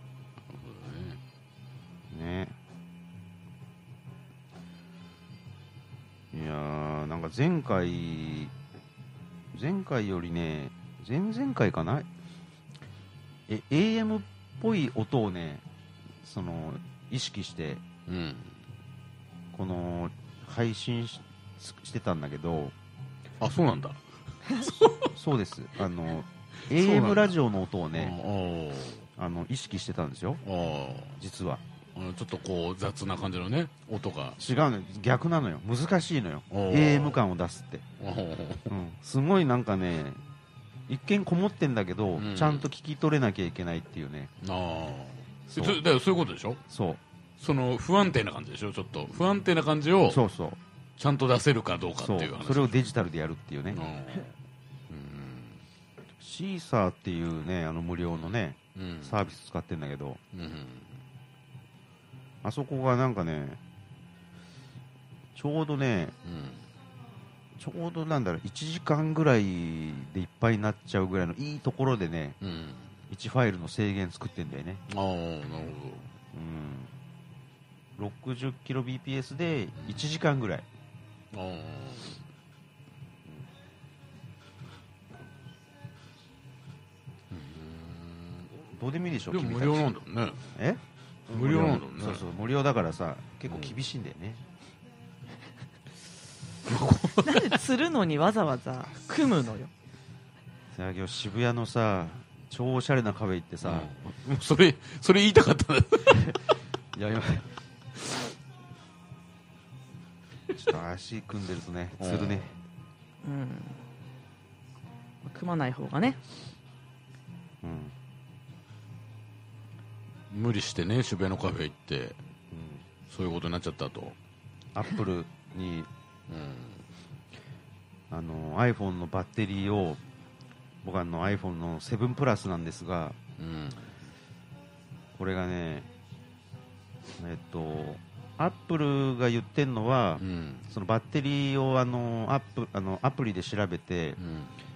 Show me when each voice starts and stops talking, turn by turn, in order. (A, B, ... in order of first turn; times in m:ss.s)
0:00.5-0:01.2 A
0:02.1-0:02.6 B
0:06.3-0:08.5 B
0:09.5-0:12.1 B
0:13.5-0:15.6 B
0:16.2-0:17.8 B
0:18.1-0:18.6 A
0:19.5-0:22.7 B
0:23.4-0:25.1 A
0:25.1-0:28.2 B
0:26.7-0:27.4 A
0:27.9-0:29.0 A
0:29.2-0:30.4 B
0:30.4-0:31.2 A
0:31.2-0:31.6 B
0:32.0-0:34.4 A
0:34.4-0:37.8 B
0:36.5-0:37.2 A
0:38.0-0:38.7 A
0:38.7-0:40.2 B
0:40.9-0:44.3 B
0:42.2-0:42.7 A
0:44.4-0:46.6 A
0:45.5-0:45.8 B
0:46.7-0:47.0 B
0:47.4-0:50.2 A
0:50.1-0:50.6 B
0:51.0-0:52.8 A
0:52.0-0:53.8 B
0:53.7-0:54.3 A
0:54.9-0:55.6 A
0:56.2-1:00.2 B
0:58.8-0:59.2 A
1:00.3-1:00.9 A
1:02.4-1:03.6 B
1:05.4-1:06.2 B
1:06.2-1:06.6 A
1:07.6-1:12.4 B
1:12.4-1:12.9 A
1:13.1-1:14.8 B
1:14.9-1:16.1 A
1:16.3-1:16.9 B
1:18.0-1:20.7 B
1:21.3-1:22.2 A
1:27.3-1:28.5 A
1:28.7-1:29.9 B
1:29.3-1:30.4 A
1:30.6-1:34.4 B
1:31.3-1:32.3 A
1:33.5-1:33.8 A
1:36.7-1:37.6 A
1:37.2-1:39.7 C
1:40.8-1:43.9 B
1:43.6-1:46.4 A
1:47.0-1:47.4 B
1:50.6-1:52.5 B
1:52.0-1:52.4 A
1:53.2-1:53.8 C
1:55.2-1:56.2 C
1:57.6-1:57.9 B
2:00.3-2:02.2 A
2:02.5-2:02.8 B
2:03.1-2:04.2 A
2:04.8-2:05.9 B
2:06.3-2:06.8 A
2:08.1-2:10.0 B
2:10.8-2:13.2 B
2:13.4-2:13.8 A
2:15.2-2:15.9 B
2:17.2-2:24.2 B
2:20.2-2:20.6 A
2:24.2-2:24.5 A